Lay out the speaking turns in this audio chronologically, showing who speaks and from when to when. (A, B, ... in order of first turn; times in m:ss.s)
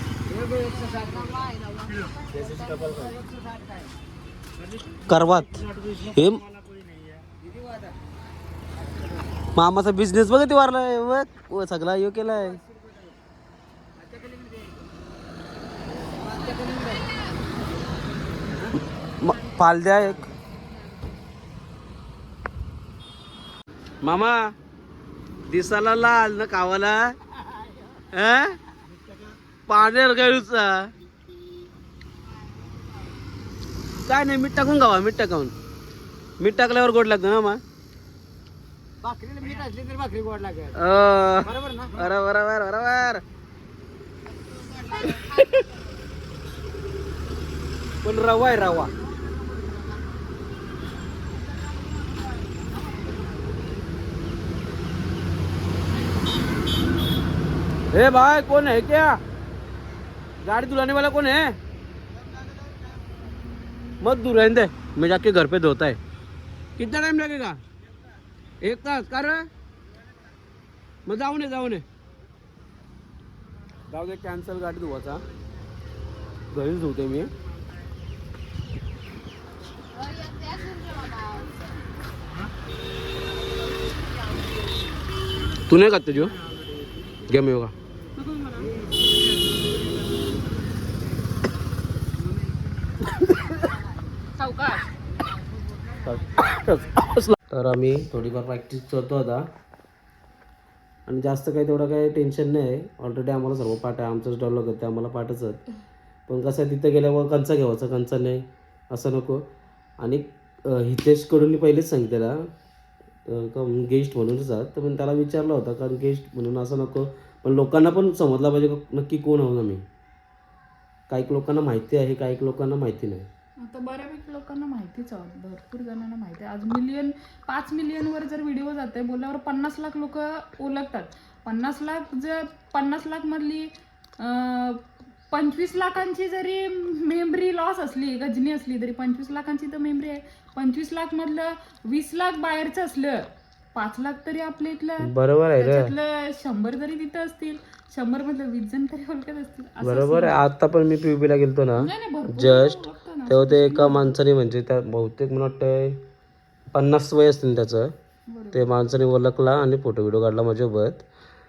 0:00.3-0:03.7 A
0:05.1-0:06.4 B
0:09.5-0:12.6 B
0:16.4-0:16.8 A
0:19.2-0:20.3 B
0:24.0-0:24.4 B
0:25.5-0:27.1 B
0:28.1-0:28.6 B
0:29.7-0:30.9 B
0:34.0-0:35.5 B
0:36.4-0:37.6 B
0:39.1-0:40.7 A
0:40.7-0:43.2 B
0:45.0-0:45.6 B
0:48.0-0:48.9 B
0:57.9-0:59.2 B
1:00.4-1:01.5 B
1:04.0-1:06.0 B
1:06.8-1:07.6 B
1:08.6-1:09.5 B
1:11.0-1:11.8 B
1:13.9-1:15.2 B
1:16.5-1:17.3 B
1:20.2-1:21.5 C
1:25.6-1:26.4 B
1:27.2-1:27.7 B
1:28.2-1:28.8 C
1:34.4-1:34.9 C
1:36.0-1:39.4 B
1:41.1-1:45.6 B
1:46.3-1:49.4 B
1:50.0-1:52.4 B
1:53.2-1:59.8 B
2:01.1-2:03.3 B
2:03.6-2:30.4 C
2:25.0-2:25.9 B
2:29.8-2:36.0 B
2:31.8-2:34.2 C
2:36.7-2:37.9 B
2:38.3-2:38.7 C
2:38.5-2:41.0 B